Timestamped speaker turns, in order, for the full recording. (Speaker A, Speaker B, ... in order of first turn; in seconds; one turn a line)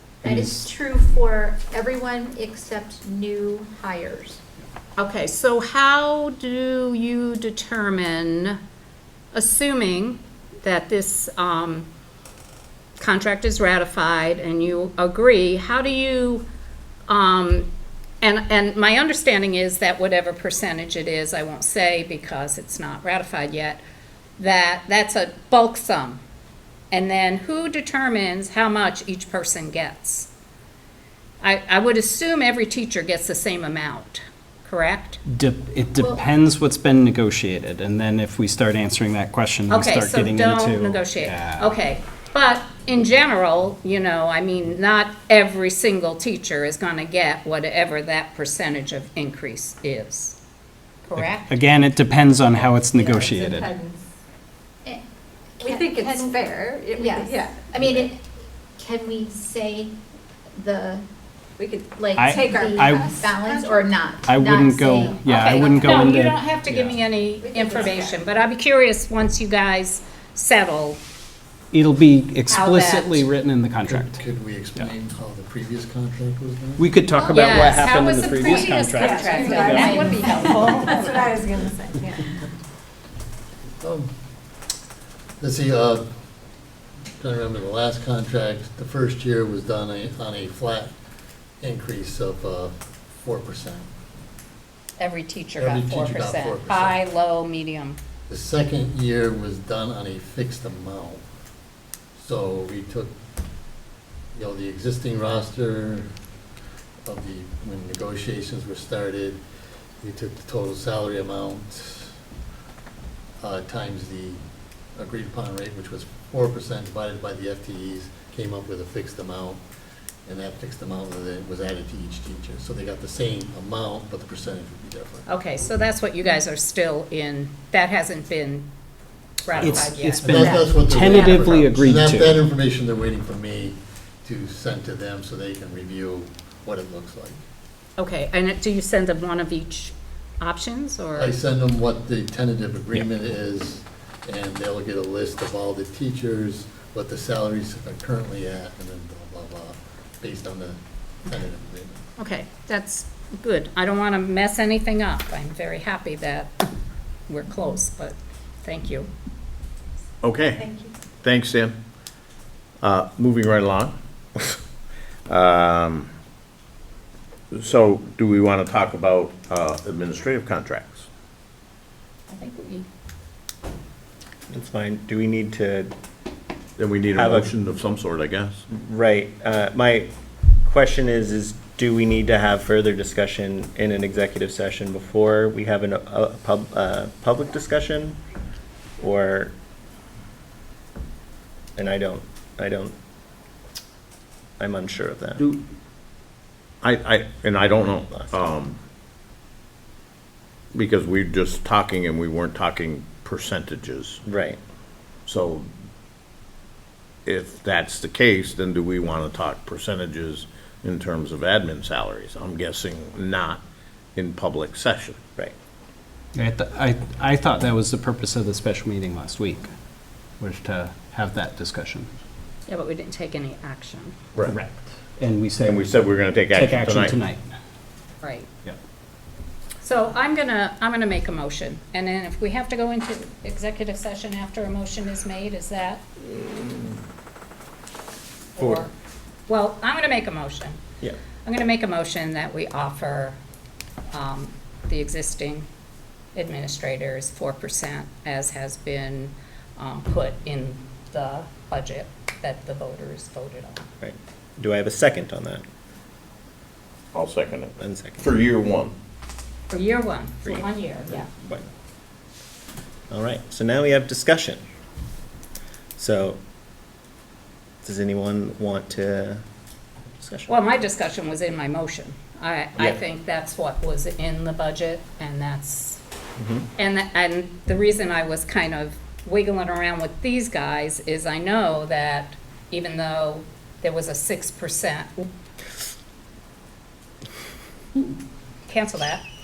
Speaker A: 0.2-4.4
Speaker B: 0.2-0.7
Speaker C: 5.0-8.6
Speaker C: 9.3-11.9
Speaker C: 13.0-16.4
Speaker C: 17.1-17.7
Speaker C: 18.2-23.8
Speaker C: 24.4-26.2
Speaker C: 26.9-30.3
Speaker C: 31.4-35.2
Speaker B: 35.3-41.8
Speaker C: 39.7-50.4
Speaker C: 51.1-51.6
Speaker B: 51.2-53.7
Speaker D: 52.9-54.0
Speaker A: 55.6-56.4
Speaker D: 55.6-58.1
Speaker A: 56.9-58.2
Speaker A: 58.8-60.0
Speaker A: 60.5-61.0
Speaker D: 61.6-64.0
Speaker A: 62.0-65.7
Speaker B: 62.2-63.3
Speaker B: 64.2-67.0
Speaker C: 65.3-71.0
Speaker D: 67.4-68.2
Speaker B: 71.7-74.2
Speaker C: 72.5-73.3
Speaker E: 73.9-76.9
Speaker B: 76.8-80.1
Speaker C: 77.2-81.1
Speaker D: 78.9-82.3
Speaker A: 79.7-80.4
Speaker E: 80.4-80.7
Speaker E: 83.8-84.1
Speaker E: 85.4-86.0
Speaker E: 87.2-90.9
Speaker E: 91.6-93.9
Speaker C: 95.0-98.0
Speaker E: 95.6-97.0
Speaker E: 98.3-101.2
Speaker E: 102.2-103.1
Speaker E: 104.3-106.1
Speaker E: 107.0-109.4
Speaker E: 110.0-112.1
Speaker E: 113.4-114.4
Speaker E: 115.0-119.6
Speaker E: 120.3-125.3
Speaker C: 125.3-128.7
Speaker C: 129.4-131.5
Speaker B: 129.6-132.4
Speaker E: 129.7-137.4
Speaker C: 138.0-141.4
Speaker E: 141.2-152.0
Speaker C: 152.2-156.7
Speaker C: 157.3-159.1
Speaker F: 160.2-161.8
Speaker F: 162.8-164.6
Speaker F: 165.3-166.1
Speaker F: 167.5-171.1
Speaker C: 172.3-172.9
Speaker G: 174.5-175.9
Speaker F: 176.8-178.6
Speaker G: 177.1-177.5
Speaker G: 178.7-180.1
Speaker G: 180.6-188.2
Speaker G: 189.0-189.5
Speaker G: 191.8-192.9
Speaker G: 194.6-195.4
Speaker F: 196.8-198.8
Speaker F: 200.7-204.2
Speaker G: 204.2-204.6
Speaker F: 205.3-205.7
Speaker F: 207.3-213.6
Speaker F: 214.2-215.2
Speaker B: 216.3-219.7
Speaker B: 220.4-222.1
Speaker C: 222.7-224.2
Speaker B: 224.4-227.5
Speaker F: 225.6-227.2
Speaker C: 228.2-228.5
Speaker C: 229.8-236.1
Speaker G: 236.3-236.9
Speaker C: 238.6-238.9
Speaker G: 238.6-238.9
Speaker C: 239.5-240.8
Speaker C: 241.4-243.4
Speaker C: 244.1-245.7
Speaker C: 246.3-253.9
Speaker G: 254.0-255.7
Speaker F: 257.1-258.9
Speaker G: 257.8-258.3
Speaker C: 259.7-261.3
Speaker G: 260.5-261.7
Speaker G: 263.1-264.6
Speaker G: 266.0-266.4
Speaker G: 267.8-269.4
Speaker G: 270.2-270.5
Speaker C: 270.5-276.0
Speaker C: 276.8-285.3
Speaker C: 288.7-289.2